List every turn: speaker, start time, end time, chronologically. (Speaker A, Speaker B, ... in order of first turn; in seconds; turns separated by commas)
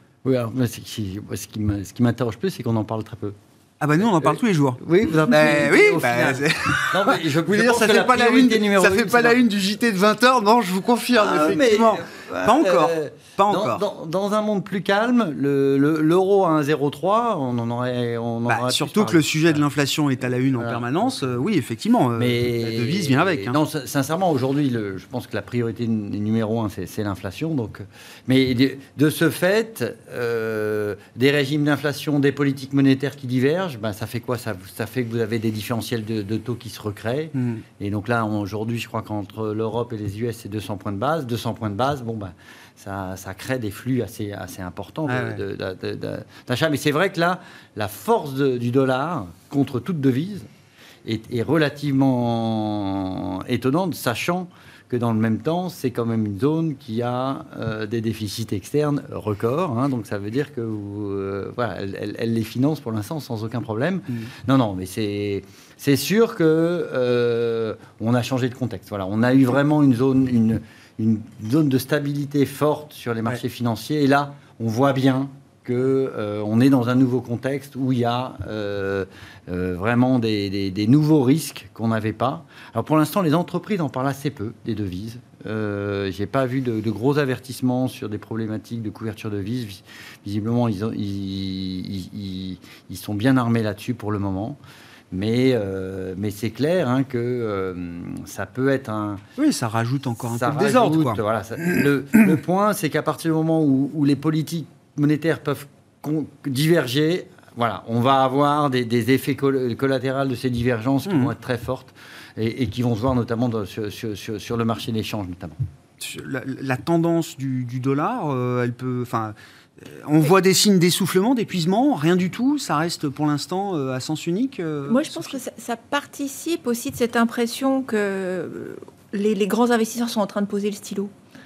Speaker A: 0.2-3.4, Speaker B: 3.8-13.8, Speaker A: 4.0-9.4, Speaker A: 11.2-19.6, Speaker B: 18.5-23.6, Speaker A: 20.5-21.4, Speaker A: 22.2-50.5, Speaker B: 37.4-37.6, Speaker B: 45.1-45.4, Speaker A: 51.0-94.6, Speaker A: 95.1-99.2, Speaker B: 99.4-101.2, Speaker A: 100.3-115.6, Speaker B: 111.1-111.3, Speaker B: 116.0-125.4, Speaker C: 124.9-131.1